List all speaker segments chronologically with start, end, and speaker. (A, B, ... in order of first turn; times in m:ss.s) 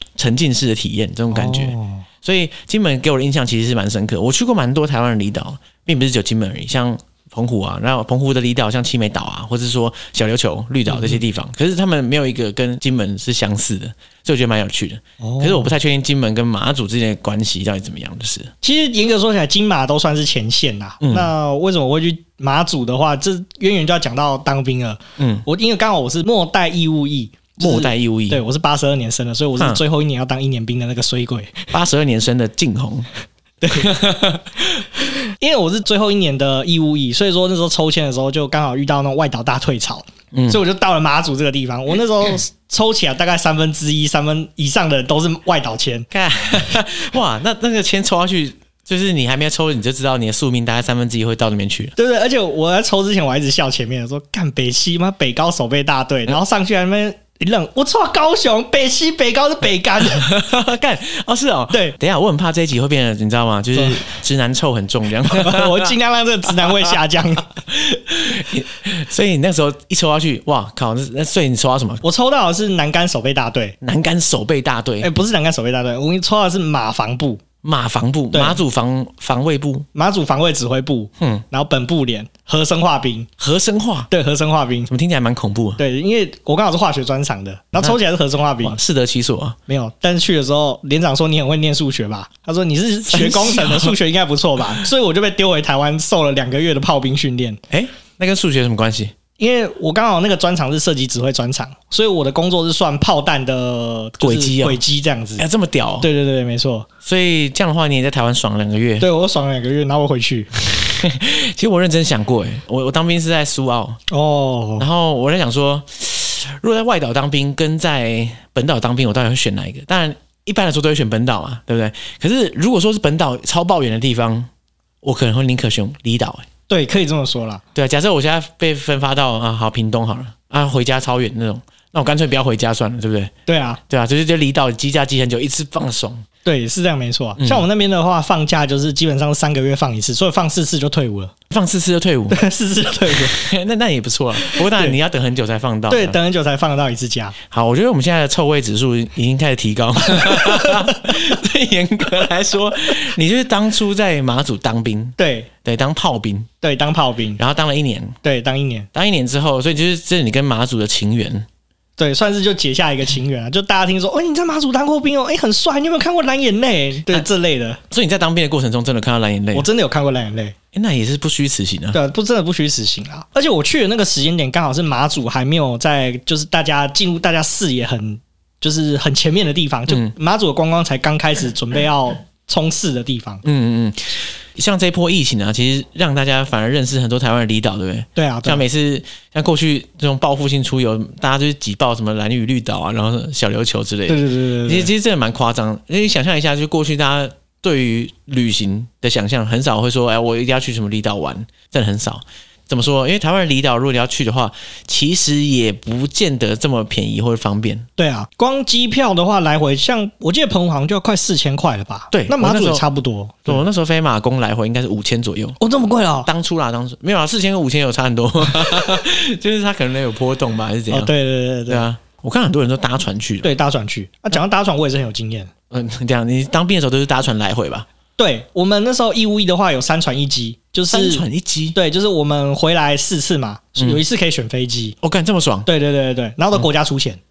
0:00.2-0:18.5 A
0:01.3-0:02.0 B
0:10.9-0:11.2 B
0:15.2-0:15.7 B
0:18.6-0:31.7 B
0:21.0-0:21.3 A
0:25.2-0:25.4 A
0:27.6-0:28.4 A
0:31.7-0:33.1 A
0:33.6-0:34.0 B
0:33.7-0:34.4 A
0:35.0-0:46.1 B
0:40.3-0:40.6 A
0:46.1-0:51.9 A
0:52.0-1:00.3 B
1:00.0-1:05.9 A
1:03.7-1:04.0 B
1:05.2-1:07.6 B
1:07.6-1:12.0 A
1:12.0-1:13.8 B
1:13.8-1:15.1 A
1:15.0-1:17.4 B
1:17.6-1:19.8 A
1:18.3-1:18.6 B
1:19.9-1:23.3 B
1:21.2-1:21.4 A
1:23.4-1:24.1 A
1:24.1-1:24.9 B
1:24.9-1:25.8 A
1:25.8-1:28.8 B
1:28.6-1:29.6 A
1:29.7-1:37.6 B
1:33.1-1:34.0 A
1:37.7-1:39.1 A
1:39.4-1:45.4 B
1:44.2-1:44.8 A
1:45.4-1:46.1 A
1:46.0-1:46.9 B
1:47.0-1:49.1 A
1:49.0-1:50.5 B
1:50.8-1:54.0 A
1:54.1-1:54.8 B
1:54.8-2:04.5 A
2:05.0-2:06.5 A
2:06.7-2:07.6 B
2:07.7-2:13.3 A
2:13.5-2:13.8 B
2:13.9-2:16.2 A
2:16.4-2:21.3 B
2:17.4-2:17.6 A
2:21.5-2:22.4 A
2:22.3-2:23.4 B
2:23.1-2:26.2 A
2:24.4-2:25.0 B
2:25.9-2:27.4 B
2:27.5-2:36.5 A
2:30.2-2:31.2 B
2:35.2-2:35.5 B
2:36.6-2:37.4 B
2:37.4-2:38.2 A
2:38.2-2:38.9 B
2:38.9-2:41.5 A
2:42.0-2:47.8 B
2:47.9-2:49.7 A
2:49.5-2:50.5 B
2:50.7-2:52.0 A
2:51.9-3:03.4 B
2:59.9-3:00.1 A
3:03.4-3:27.9 A
3:08.2-3:08.6 B
3:14.1-3:14.9 B
3:28.0-3:33.6 B
3:32.1-3:32.8 A
3:33.5-3:35.6 A
3:35.6-3:36.3 B
3:36.2-3:41.1 A
3:40.9-3:41.8 B
3:41.7-3:43.5 A
3:43.4-3:45.5 B
3:45.7-3:47.8 A
3:48.2-3:55.0 B
3:50.9-3:51.8 A
3:53.8-3:54.0 A
3:55.0-3:55.7 A
3:55.6-3:57.2 B